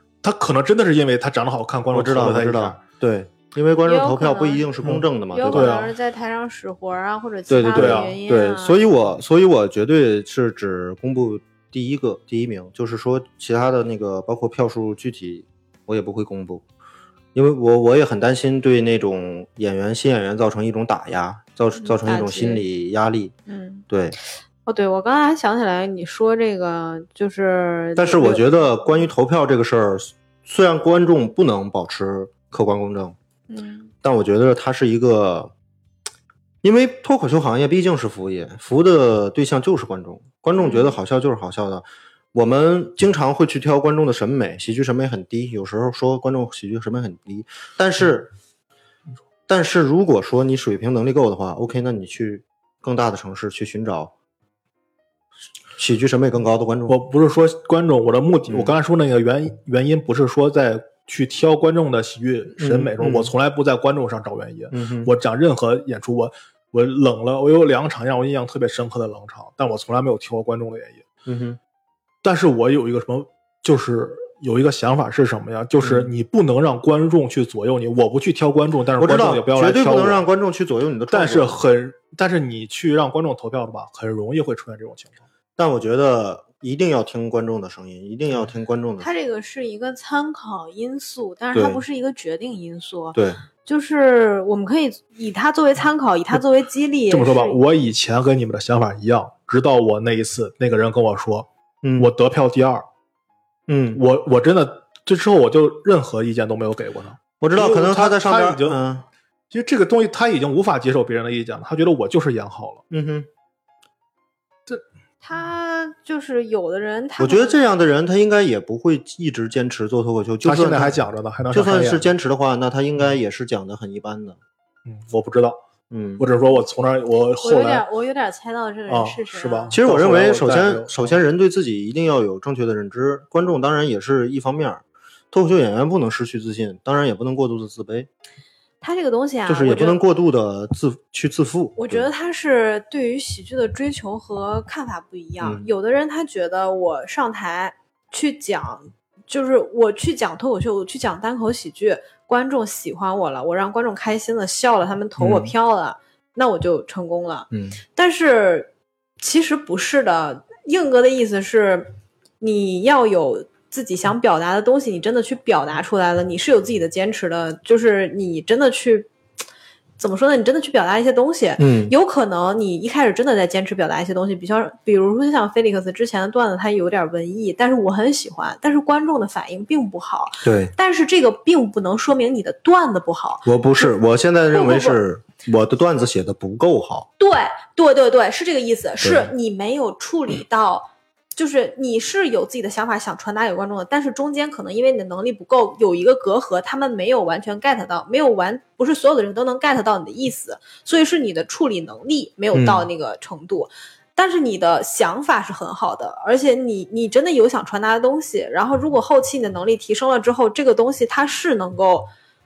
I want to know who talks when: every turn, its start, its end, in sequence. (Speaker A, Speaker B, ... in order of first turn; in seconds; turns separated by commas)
Speaker A: 0.2-2.8, Speaker B: 1.9-5.7, Speaker C: 3.8-4.7, Speaker A: 4.8-5.9, Speaker C: 5.3-8.9, Speaker B: 7.5-16.6, Speaker A: 7.7-8.1, Speaker B: 17.3-23.3, Speaker C: 21.8-22.6, Speaker C: 23.5-23.8, Speaker B: 23.9-24.1, Speaker C: 24.6-29.1, Speaker B: 28.0-33.1, Speaker C: 33.5-33.9, Speaker B: 34.0-35.5, Speaker B: 36.6-48.3, Speaker C: 40.6-41.0, Speaker B: 49.5-54.1, Speaker B: 55.8-57.0, Speaker A: 56.9-71.0, Speaker B: 58.5-58.8, Speaker B: 62.6-63.3, Speaker B: 64.7-65.1, Speaker B: 71.2-71.6, Speaker A: 72.2-80.2, Speaker B: 75.8-76.1, Speaker B: 79.0-81.6, Speaker A: 81.1-85.2, Speaker B: 85.6-89.1, Speaker C: 89.0-97.6, Speaker B: 91.5-91.8, Speaker B: 93.1-93.4, Speaker A: 97.1-102.8, Speaker B: 101.8-102.1, Speaker B: 103.7-104.0, Speaker A: 103.9-108.8, Speaker B: 107.4-109.1, Speaker A: 109.5-112.8, Speaker B: 112.9-113.3, Speaker C: 115.2-117.6, Speaker B: 117.2-124.4, Speaker A: 120.4-122.1, Speaker A: 124.8-125.6, Speaker B: 125.9-126.2, Speaker A: 126.2-127.8, Speaker C: 127.4-129.8, Speaker A: 128.9-131.2, Speaker B: 129.7-138.1, Speaker C: 138.8-140.0, Speaker B: 139.5-142.1, Speaker C: 141.8-161.9, Speaker B: 145.4-145.7, Speaker B: 155.2-155.5, Speaker B: 157.5-157.8, Speaker C: 162.4-169.1, Speaker C: 170.0-183.9, Speaker B: 171.6-171.9, Speaker B: 180.4-180.7, Speaker B: 183.4-187.1, Speaker C: 184.5-185.0, Speaker C: 187.2-212.1, Speaker B: 189.0-189.3, Speaker B: 202.5-202.9